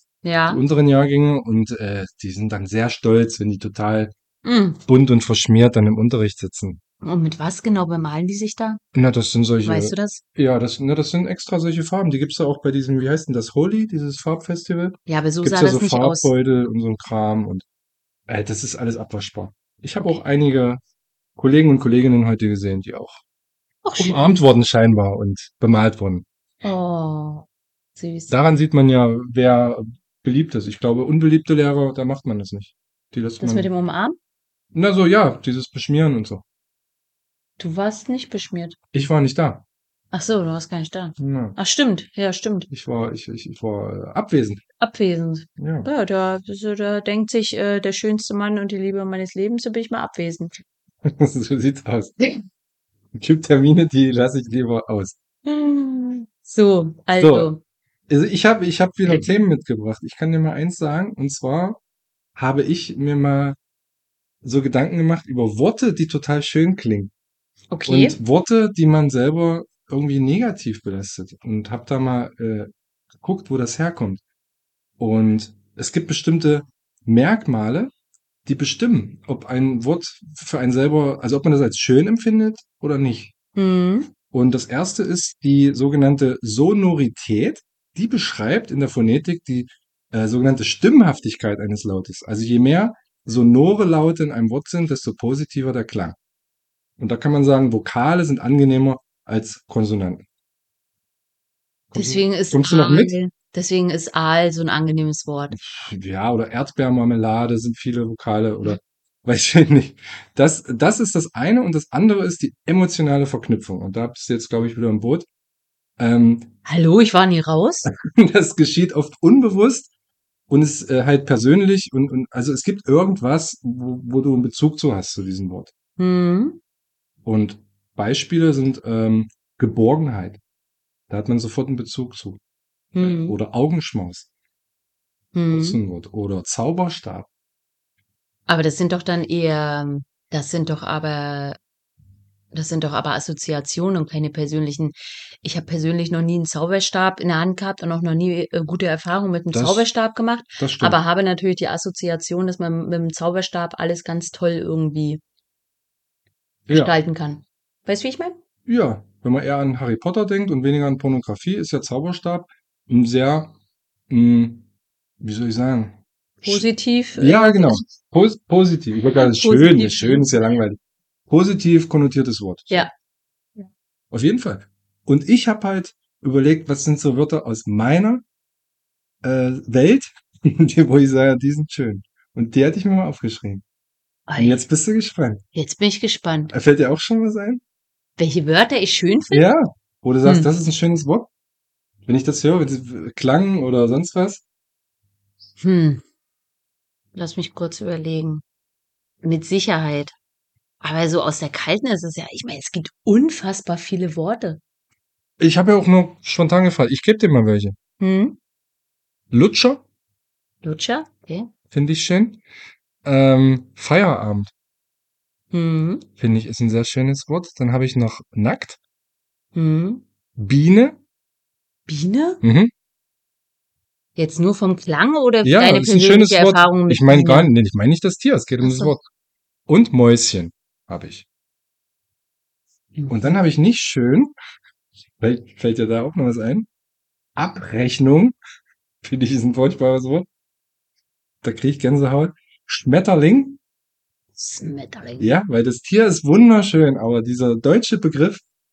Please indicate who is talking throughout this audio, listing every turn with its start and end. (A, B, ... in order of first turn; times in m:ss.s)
0:00.2-0:00.6 A
0:00.5-0:04.1 B
0:04.4-0:04.8 A
0:04.9-0:06.8 B
0:07.0-0:08.8 A
0:08.9-0:17.6 B
0:09.6-0:10.2 A
0:15.1-0:16.3 A
0:18.3-0:20.8 B
0:21.4-0:23.2 B
0:23.8-0:24.4 A
0:24.0-0:26.2 B
0:26.6-0:28.3 A
0:28.3-0:33.7 B
0:33.4-0:34.2 A
0:34.7-0:36.4 B
0:37.6-0:38.8 A
0:38.9-0:39.6 B
0:40.1-0:42.7 A
0:41.2-0:41.6 B
0:42.7-0:44.6 B
0:44.8-0:50.5 A
0:45.6-0:45.9 B
0:51.0-0:52.1 B
0:53.1-0:55.2 B
0:55.4-0:57.6 A
0:57.2-0:57.5 B
0:58.1-1:01.8 B
0:59.0-0:59.3 A
1:02.4-1:03.6 B
1:04.4-1:07.1 B
1:07.7-1:08.2 A
1:07.8-1:12.7 B
1:13.2-1:14.2 B
1:15.0-1:17.9 B
1:18.4-1:23.3 B
1:23.6-1:24.1 A
1:24.3-1:36.2 B
1:37.0-1:40.2 B
1:41.9-1:43.2 B
1:41.9-1:45.6 A
1:45.5-1:55.3 B
1:56.0-1:56.5 B
1:56.6-1:57.9 A
1:57.8-1:59.9 B
2:00.5-2:05.7 B
2:06.0-2:06.6 A
2:07.2-2:10.4 B
2:11.1-2:12.4 B
2:12.9-2:13.4 A
2:13.0-2:14.3 B
2:15.3-2:15.8 A
2:15.5-2:17.3 B
2:18.5-2:21.6 A
2:22.5-2:35.2 A
2:29.5-2:29.8 B
2:30.6-2:31.0 B
2:36.7-2:36.9 B
2:36.7-2:38.4 A
2:38.6-2:43.5 B
2:44.1-2:44.6 B
2:45.2-2:46.6 B
2:46.4-2:47.8 A
2:47.2-2:52.9 B
2:49.1-2:50.4 A
2:54.1-2:58.2 B
2:59.2-3:03.6 B
3:04.3-3:04.6 A
3:04.4-3:05.4 B
3:05.5-3:06.5 A
3:06.5-3:07.6 B
3:08.2-3:09.5 A
3:09.3-3:11.3 B
3:12.0-3:14.4 B
3:15.6-3:16.0 A
3:17.1-3:18.4 A
3:19.2-3:20.1 A
3:20.8-3:24.6 A
3:25.4-3:27.8 B
3:28.0-3:28.4 A
3:29.3-3:29.8 B
3:30.6-3:31.5 A
3:31.7-3:32.4 B
3:33.0-3:34.5 B
3:35.5-3:36.0 A
3:36.2-3:38.8 B
3:39.5-3:40.0 A
3:40.4-3:41.0 B
3:41.9-3:42.4 A
3:42.4-3:42.7 B
3:44.2-3:47.5 A
3:45.4-3:49.0 B
3:48.6-3:48.9 A
3:49.7-3:51.2 B
3:52.9-3:53.4 A
3:53.1-3:54.3 B
3:55.2-3:56.7 B
3:57.4-3:58.4 B
3:59.0-4:00.3 B
4:01.4-4:03.6 B
4:04.4-4:05.3 A
4:05.2-4:08.4 B